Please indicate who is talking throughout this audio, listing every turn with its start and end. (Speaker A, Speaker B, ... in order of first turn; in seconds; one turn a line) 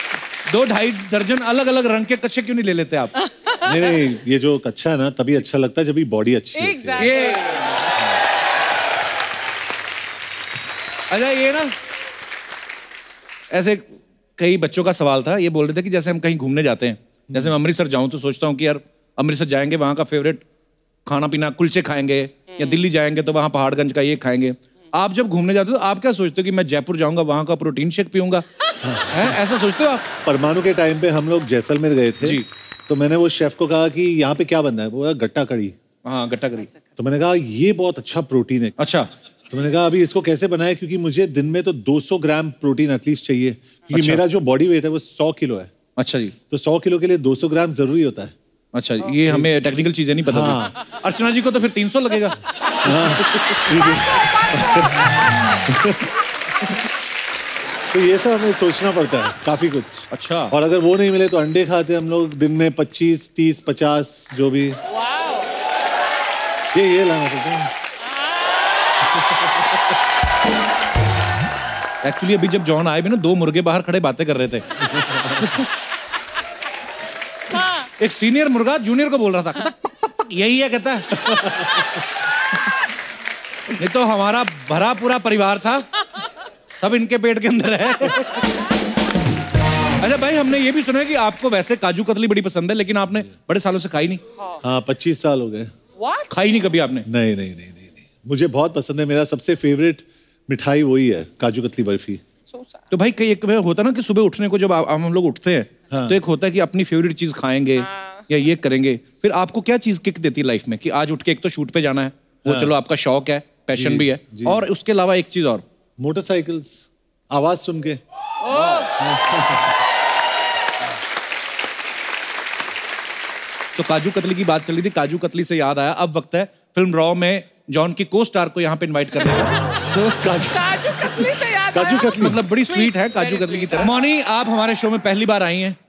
Speaker A: 0.5-3.1
Speaker B: 3.6-7.2
Speaker C: 6.5-7.7
Speaker A: 7.0-7.5
Speaker A: 11.1-11.7
Speaker A: 13.5-20.4
Speaker A: 21.1-28.4
Speaker C: 22.5-22.8
Speaker B: 28.8-29.4
Speaker A: 29.1-30.0
Speaker B: 30.2-35.8
Speaker A: 32.2-32.5
Speaker A: 36.0-36.7
Speaker B: 37.0-38.8
Speaker A: 38.8-39.1
Speaker B: 39.5-45.7
Speaker A: 43.9-44.2
Speaker A: 46.0-46.3
Speaker B: 46.5-48.3
Speaker A: 48.7-52.4
Speaker B: 50.3-50.8
Speaker B: 52.8-56.1
Speaker B: 57.9-64.8
Speaker A: 60.1-60.5
Speaker C: 65.0-65.4
Speaker B: 66.7-67.7
Speaker A: 72.0-74.6
Speaker B: 75.0-75.4
Speaker A: 78.0-81.0
Speaker B: 81.3-81.6
Speaker A: 83.8-85.8
Speaker A: 86.8-88.2
Speaker A: 90.0-94.2
Speaker B: 94.6-95.7
Speaker C: 96.0-96.3
Speaker A: 96.3-97.1
Speaker B: 97.1-102.2
Speaker C: 102.5-102.8
Speaker A: 102.9-115.6
Speaker B: 105.9-106.2
Speaker C: 107.8-108.2
Speaker B: 112.5-112.7
Speaker B: 113.7-114.6
Speaker B: 116.0-118.0
Speaker C: 118.5-118.8
Speaker A: 118.5-118.9
Speaker B: 119.0-119.8
Speaker A: 123.8-129.5
Speaker B: 129.9-132.4
Speaker C: 130.4-133.9
Speaker A: 132.2-135.8